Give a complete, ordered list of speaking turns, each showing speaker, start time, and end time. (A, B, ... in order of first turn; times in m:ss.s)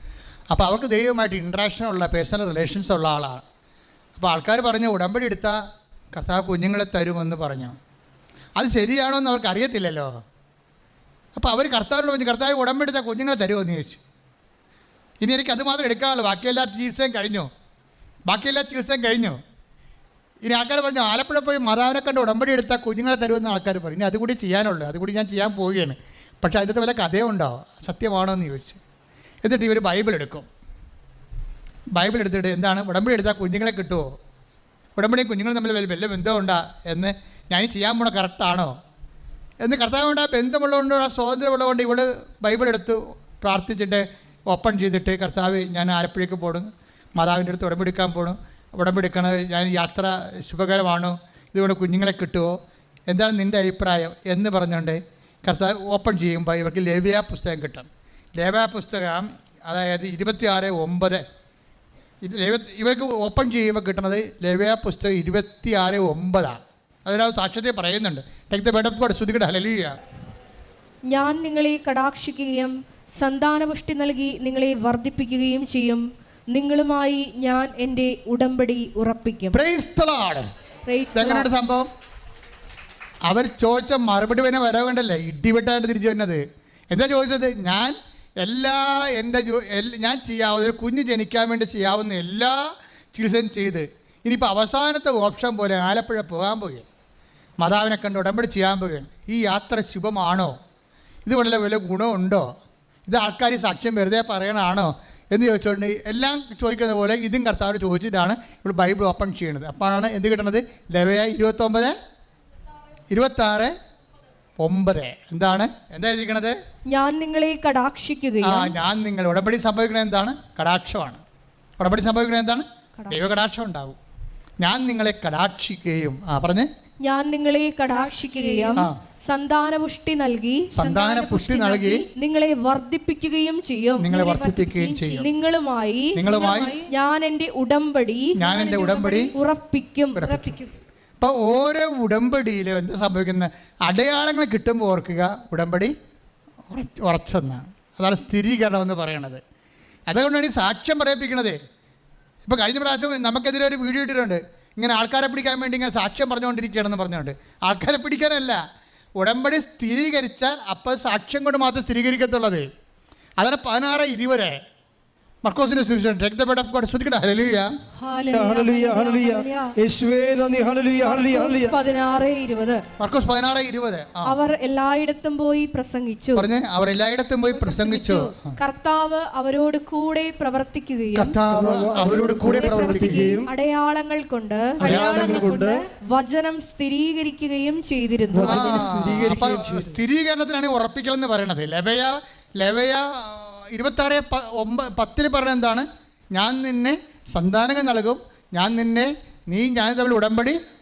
0:00.5-0:03.4 A
0:04.2-0:05.6 A
0:06.1-0:07.8 A
0:08.6-0:10.2 A
0:11.4-0:14.0 A
0:15.2-0:17.5 A
0:18.3-0:19.4 A
0:20.4-0:28.8 A
0:29.4-0:30.5 A
0:32.0-0:34.1 A
0:35.0-0:38.8 A
0:39.6-0:52.6 A
0:53.1-1:01.2 A
1:02.2-1:10.0 A
1:11.1-1:19.6 B
1:19.5-1:20.5 A
1:20.9-1:21.5 B
1:21.1-1:21.9 A
1:23.3-1:32.6 A
1:33.1-1:36.9 A
1:37.6-1:40.6 A
1:41.3-1:42.5 A
1:43.1-1:52.0 A
1:53.1-1:53.7 A
1:54.6-1:56.6 A
1:56.9-1:58.8 B
1:58.4-2:01.2 A
2:01.8-2:04.0 A
2:03.0-2:03.3 B
2:04.6-2:06.7 A
2:07.0-2:20.7 B
2:10.8-2:12.0 A
2:14.0-2:15.3 A
2:16.2-2:16.8 A
2:18.4-2:19.3 A
2:20.2-2:20.6 A
2:21.2-2:25.9 A
2:26.7-2:29.4 A
2:30.1-2:31.6 A
2:32.5-2:38.6 A
2:39.2-2:42.7 A
2:43.4-2:44.6 A
2:45.4-2:47.7 A
2:48.0-2:49.7 B
2:48.3-2:51.8 C
2:51.0-2:52.8 B
2:53.0-2:54.4 A
2:54.2-2:56.5 B
2:56.4-2:58.6 A
2:57.6-3:01.4 B
3:01.2-3:03.4 A
3:01.5-3:03.5 C
3:02.0-3:08.9 B
3:04.8-3:05.8 C
3:04.8-3:05.6 A
3:08.3-3:10.0 C
3:08.4-3:20.6 A